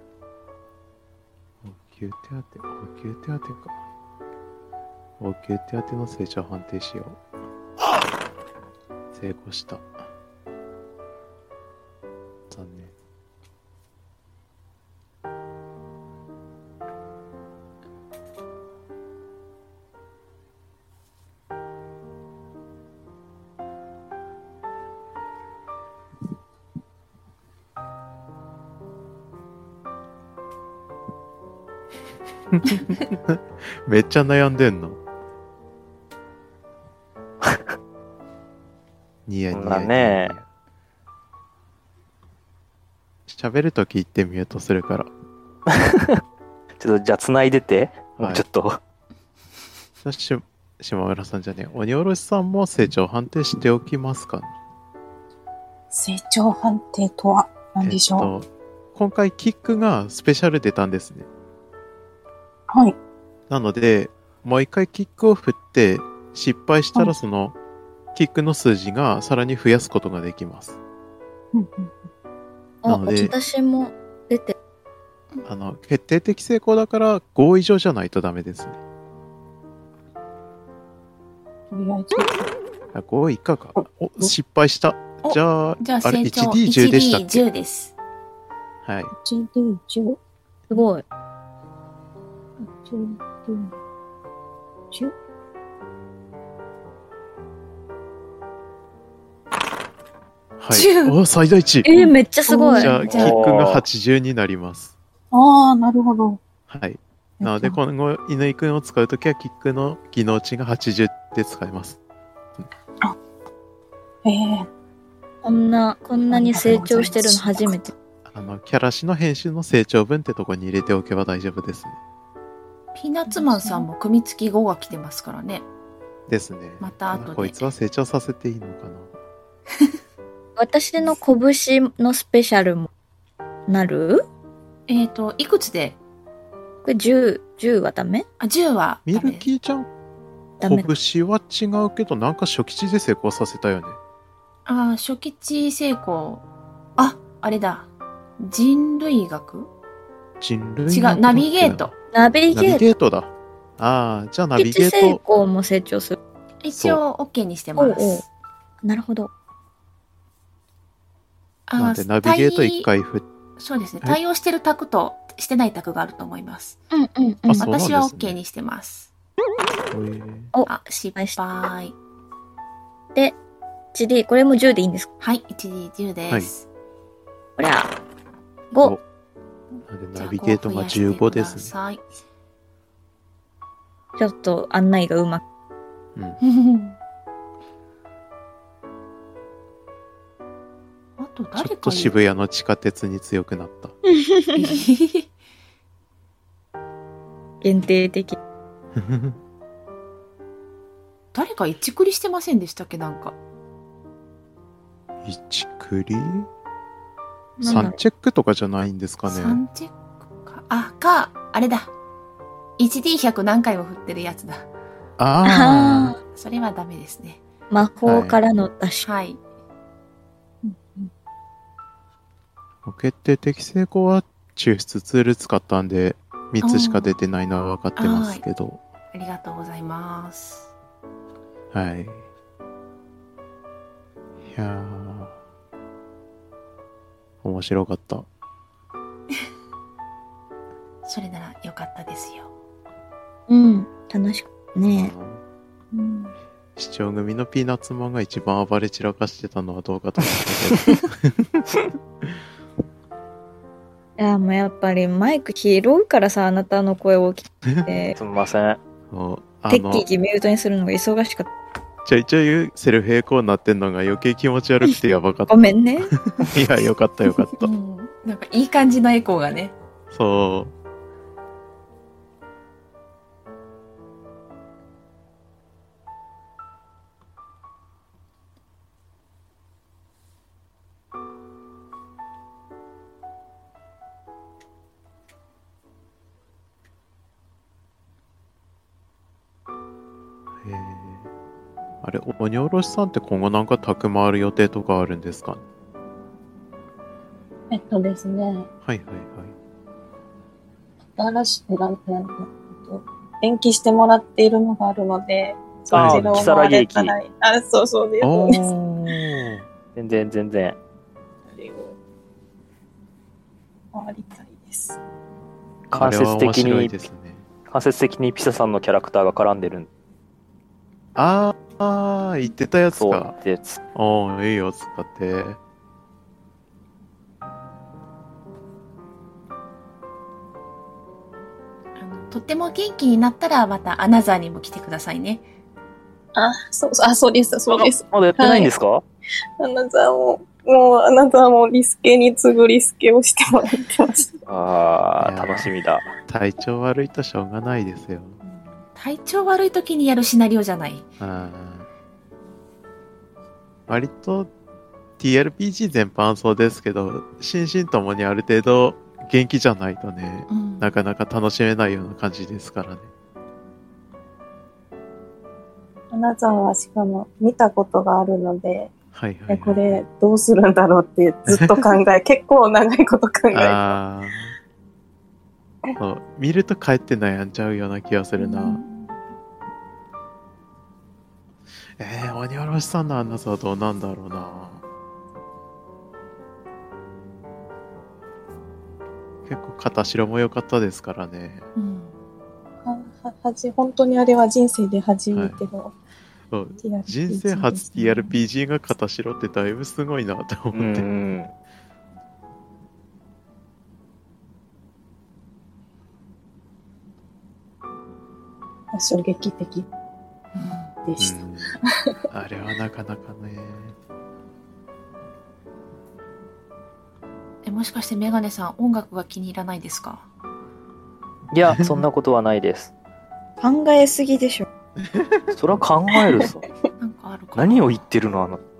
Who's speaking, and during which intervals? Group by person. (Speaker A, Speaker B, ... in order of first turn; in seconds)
Speaker A: 1.6-3.8, 5.2-7.2, 9.1-9.9, 12.5-12.9, 32.5-35.0, 39.3-40.4, 43.3-45.1, 48.2-48.4, 50.0-54.5, 57.8-61.3, 63.5-67.5, 68.1-70.8, 72.8-73.3, 75.4-78.8, 82.9-87.4, 88.8-89.1, 100.6-101.9, 102.7-104.9, 106.7-112.0, 118.2-122.0, 126.3-129.1, 139.1-139.9, 140.6-144.0, 150.4-151.9, 152.5-155.2, 161.8-163.2, 167.4-168.4, 169.9-170.5, 179.9-181.7, 191.6-193.9, 198.9-199.4, 205.2-206.5, 207.6-209.6, 215.2-216.1, 218.0-218.4, 222.8-228.8, 231.7-232.2, 234.4-235.3, 237.4-238.3, 244.8-245.4, 246.8-252.3, 259.1-260.1, 262.0-267.7, 270.1-270.7, 290.6-291.3, 292.0-295.6, 298.8-299.5, 305.9-306.4, 308.2-309.6, 315.9-317.4, 321.1-323.3, 323.9-325.6, 345.2-345.7, 346.3-348.4, 351.2-351.9, 353.9-354.5, 355.2-363.1, 369.1-370.0, 371.5-371.8, 373.5-374.6, 376.0-378.8, 382.0-384.8, 389.4-391.6, 395.3-395.6, 396.5-401.1, 411.2-411.8, 412.3-413.9, 425.0-425.5
Speaker B: 39.5-40.4, 45.7-46.2, 46.8-48.8, 103.1-103.8, 258.2-258.8, 305.9-307.1, 309.9-310.8, 315.9-317.0, 317.7-319.9, 322.9-323.8, 337.7-339.0, 344.5-346.1, 400.7-401.5, 421.5-422.9, 425.5-426.6, 427.5-428.6
Speaker C: 55.9-58.3, 62.7-63.0, 71.5-72.0, 81.7-82.5, 83.8-84.3, 89.2-90.2, 92.6-93.7, 102.0-103.3, 105.3-106.4, 107.4-107.8, 114.2-114.7, 116.3-117.8, 123.3-123.9, 220.6-221.1, 245.9-246.3, 297.7-298.7, 301.2-308.7, 311.5-311.9, 313.9-315.0, 336.3-338.7, 339.6-344.3, 366.1-368.9, 369.5-373.8, 392.8-395.9, 396.8-398.3, 408.9-409.9, 411.0-411.9
Speaker D: 72.8-74.5, 90.7-91.0, 101.8-103.0, 115.4-117.9, 130.6-132.9, 133.7-134.2, 136.8-138.2, 140.6-140.9, 152.1-152.8, 154.6-156.2, 157.8-158.2, 158.8-159.3, 166.9-167.7, 170.5-171.4, 173.9-175.1, 177.6-177.9, 178.7-178.9, 184.2-185.4, 194.1-194.8, 197.6-198.4, 207.6-208.0, 215.4-216.2, 217.7-219.1, 243.5-245.1, 254.2-258.2, 259.7-261.5, 265.5-266.1, 423.6-424.6
Speaker E: 85.2-87.9, 100.7-101.2, 103.1-103.3, 122.9-125.7, 126.8-127.6, 134.9-136.0, 138.4-139.5, 144.7-146.4, 147.0-149.7, 150.9-151.9, 156.6-158.3, 161.7-162.9, 163.6-166.8, 167.6-169.1, 170.7-171.9, 175.2-176.6, 180.1-182.0, 186.4-187.0, 191.2-192.2, 194.6-195.3, 201.3-203.4, 209.2-211.9, 212.8-214.7, 216.3-217.4, 219.0-219.4, 226.6-227.1, 227.9-228.4, 229.1-230.7, 241.0-242.5, 267.6-269.7, 332.0-335.4, 348.9-351.0, 360.5-360.9, 378.4-379.1, 391.8-392.1, 417.6-420.2, 427.0-428.0